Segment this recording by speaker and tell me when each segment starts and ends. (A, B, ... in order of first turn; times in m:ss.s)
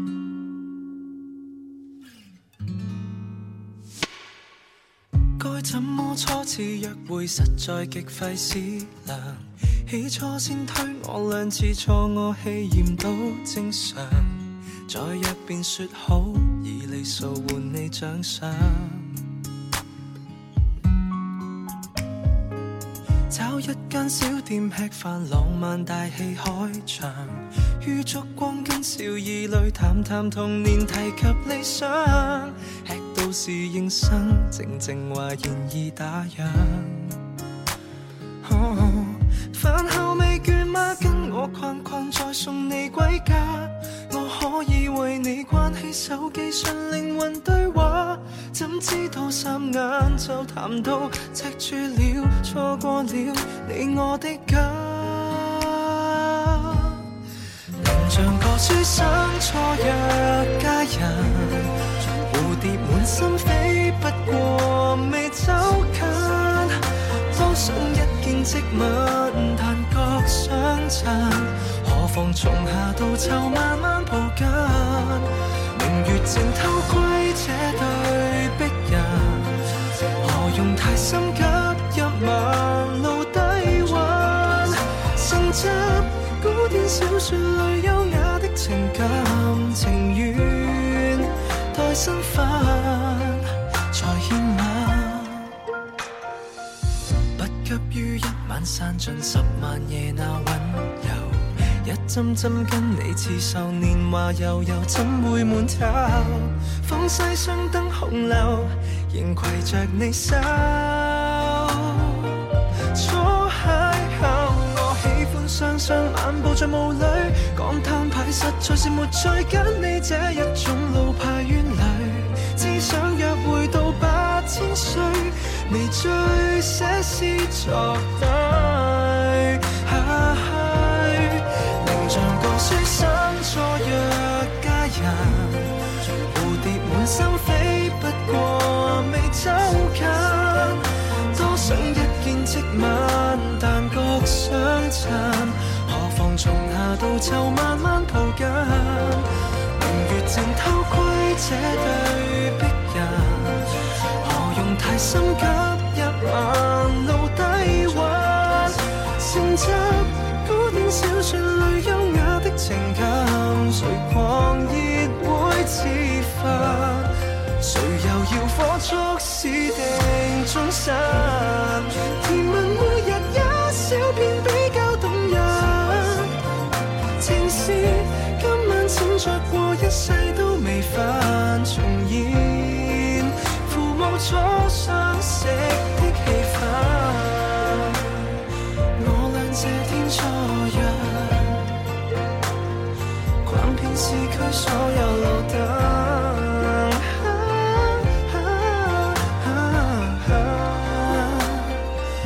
0:05.4-0:19.2 A
0:23.3-0:37.2 A
0:38.4-0:57.0 A
0:57.8-1:19.6 A
1:20.2-1:35.5 A
1:37.3-1:52.4 A
1:52.9-2:15.7 A
2:16.3-2:56.4 A
2:57.2-3:08.2 A
3:08.9-3:11.7 A
3:13.4-3:21.8 A